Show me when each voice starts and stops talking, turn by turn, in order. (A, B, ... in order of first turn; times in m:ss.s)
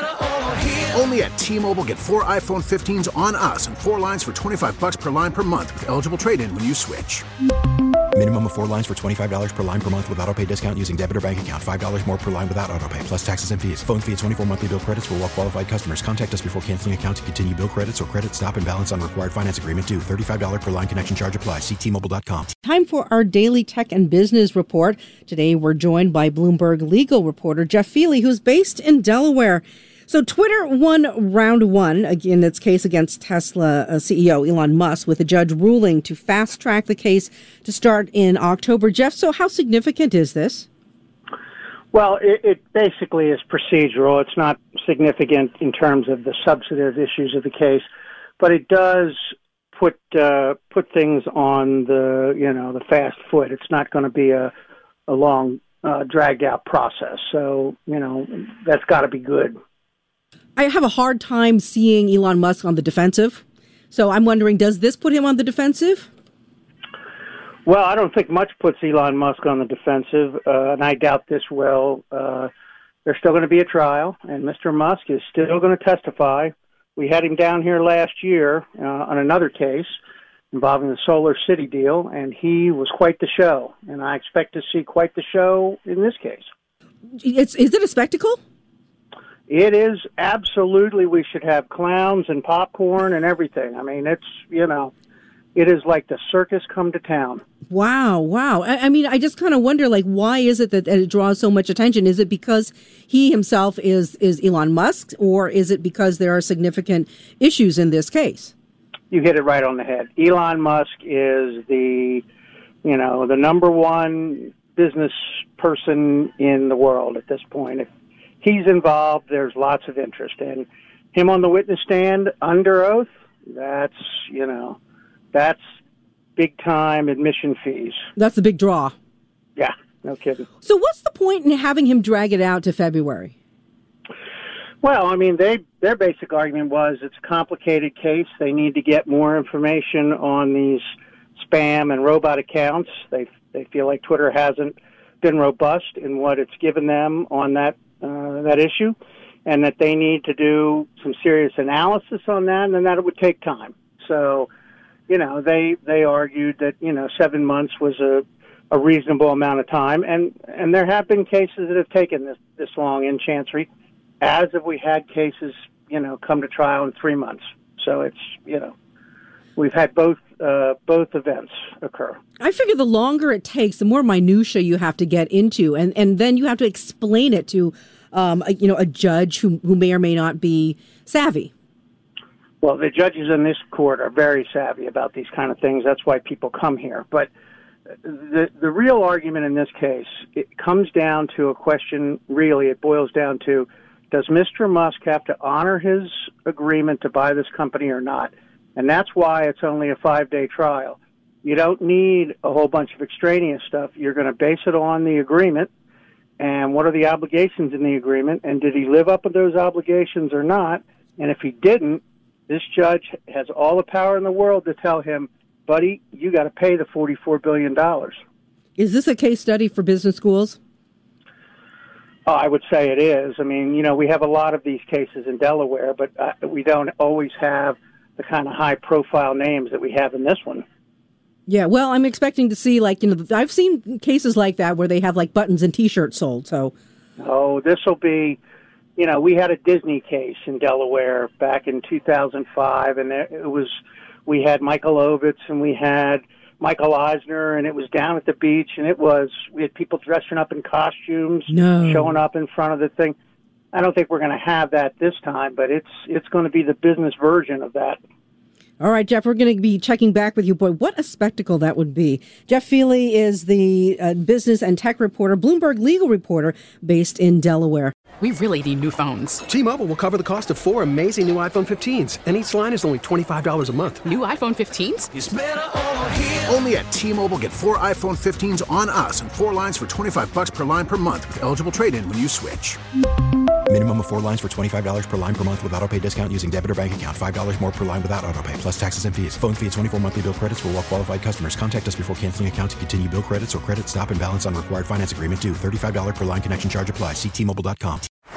0:00.5-0:07.2 A
0:08.1-0:22.5 B
0:22.6-0:40.7 C
0:41.9-0:47.9 D
0:48.4-0:49.2 D
0:49.7-0:54.5 D
0:55.1-0:59.6 D
1:00.6-1:06.1 C
1:07.7-1:12.5 D
1:13.1-1:20.0 D
1:20.5-1:26.4 D
1:27.2-1:28.4 C
1:29.5-1:34.9 D
1:35.6-1:37.4 D
1:37.7-1:48.5 C
1:49.1-1:52.2 D
1:52.8-1:57.9 D
1:58.4-2:04.8 D
2:05.3-2:05.6 D
2:06.4-2:08.0 D
2:08.2-2:08.9 C
2:09.6-2:10.5 D
2:10.6-2:13.3 C
2:14.8-2:20.8 D
2:21.4-2:34.5 D
2:35.1-2:43.7 D
2:44.2-2:48.7 D
2:49.6-2:52.2 D
2:52.4-3:01.5 C
3:02.6-3:07.3 D
3:08.0-3:25.7 D
3:26.4-3:38.2 D
3:38.8-3:40.6 C
3:42.3-3:50.6 D
3:51.5-3:56.7 C
3:57.2-3:58.4 D
3:59.0-4:03.7 D
4:04.3-4:13.2 D
4:11.5-4:12.2 C
4:13.7-4:18.0 D
4:18.8-4:28.0 C
4:28.2-4:29.4 E
4:29.5-4:34.0 F
4:34.0-4:35.1 E
4:36.2-4:42.8 A
4:43.7-4:58.1 B